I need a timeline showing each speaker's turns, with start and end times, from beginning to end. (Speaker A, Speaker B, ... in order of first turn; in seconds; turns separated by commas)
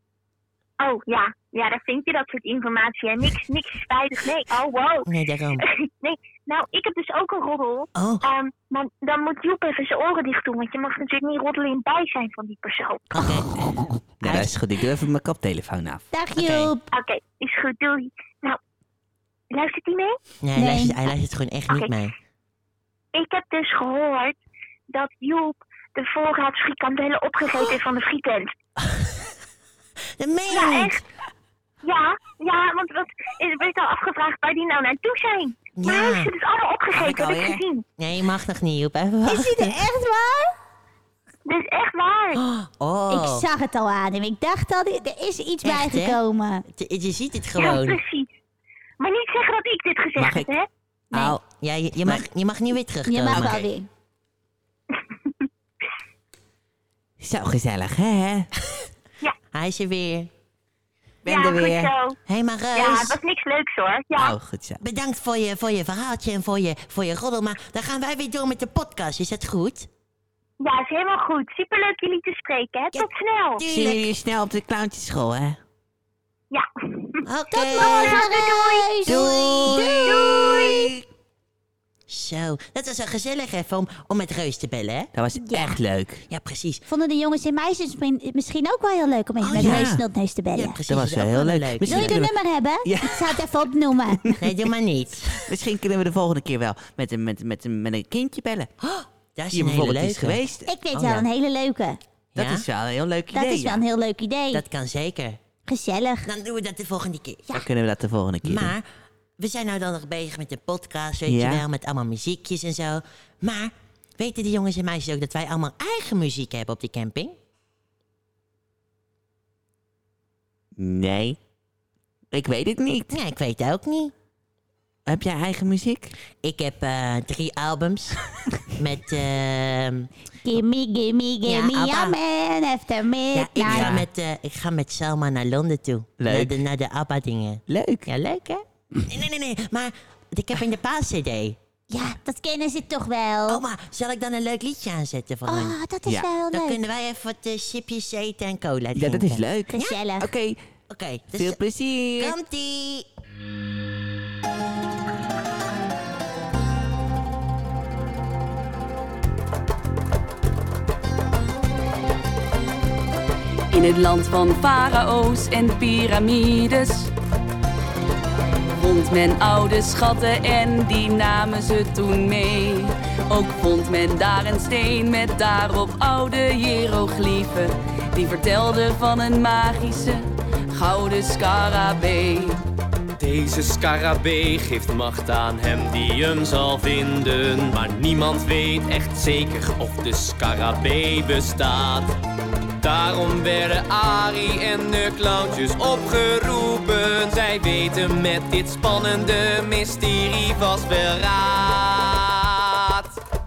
Speaker A: 0.8-13.1, Speaker B: 5.0-5.6, Speaker B: 7.9-8.2, Speaker B: 13.1-13.6, Speaker C: 13.6-16.7, Speaker B: 14.2-14.5, Speaker D: 16.1-16.9, Speaker A: 16.9-18.6, Speaker A: 19.5-20.2, Speaker B: 20.4-22.1, Speaker D: 20.6-21.0, Speaker A: 21.7-21.9, Speaker A: 23.1-24.4, Speaker A: 24.9-28.5, Speaker B: 28.8-29.2, Speaker B: 30.2-31.0, Speaker A: 30.5-31.0, Speaker A: 31.8-37.8, Speaker B: 35.8-36.3, Speaker C: 36.9-37.6, Speaker B: 38.0-39.8, Speaker D: 39.2-40.5, Speaker A: 41.5-42.4, Speaker B: 42.3-43.5, Speaker D: 43.1-46.6, Speaker B: 45.6-48.0, Speaker A: 47.5-48.3, Speaker A: 49.0-50.7, Speaker C: 50.1-50.5, Speaker D: 51.1-51.4, Speaker B: 51.1-53.6, Speaker D: 53.0-53.9, Speaker C: 53.3-53.6, Speaker A: 55.1-55.4, Speaker C: 57.2-58.5, Speaker B: 59.5-60.3, Speaker C: 61.2-61.9, Speaker A: 61.2-62.2, Speaker B: 62.3-63.2, Speaker A: 62.7-64.3, Speaker C: 64.2-64.8, Speaker B: 64.8-69.9, Speaker A: 70.6-73.6, Speaker B: 72.9-74.1, Speaker C: 73.6-75.6, Speaker A: 76.5-79.0, Speaker B: 77.2-78.3, Speaker D: 77.5-79.2, Speaker B: 79.0-80.8, Speaker C: 79.1-81.0, Speaker A: 80.0-80.9, Speaker B: 82.1-85.1, Speaker C: 85.1-86.2, Speaker D: 85.4-85.8, Speaker B: 86.3-86.8, Speaker D: 86.9-90.8, Speaker B: 89.4-90.0, Speaker C: 89.6-90.0, Speaker B: 90.5-92.2, Speaker C: 90.9-93.4, Speaker D: 91.9-94.3, Speaker C: 94.2-94.5, Speaker B: 94.4-95.5, Speaker C: 95.3-98.7, Speaker B: 98.8-101.3, Speaker C: 99.5-100.7, Speaker D: 100.7-102.0, Speaker C: 102.3-103.8, Speaker B: 102.3-102.7, Speaker D: 103.3-104.6, Speaker B: 104.5-105.4, Speaker D: 105.7-106.3, Speaker B: 106.2-107.6, Speaker C: 107.5-108.7, Speaker B: 108.4-108.9, Speaker B: 109.4-117.4, Speaker C: 111.3-111.6, Speaker C: 120.8-121.4, Speaker C: 122.3-123.2, Speaker B: 123.1-124.1, Speaker C: 125.1-126.1, Speaker B: 126.4-128.2, Speaker B: 128.7-130.1, Speaker D: 130.4-133.9, Speaker B: 131.4-132.2, Speaker B: 133.3-141.6, Speaker C: 133.6-134.1, Speaker C: 136.2-136.6, Speaker C: 137.7-138.1, Speaker D: 141.9-143.6, Speaker B: 143.5-145.8, Speaker D: 145.5-146.8, Speaker B: 146.5-150.0, Speaker C: 148.9-150.6, Speaker D: 149.7-150.2, Speaker B: 150.9-151.6, Speaker C: 151.3-152.3, Speaker B: 152.2-153.1, Speaker E: 163.7-167.1, Speaker E: 168.8-182.6, Speaker F: 183.2-192.1, Speaker F: 192.8-203.2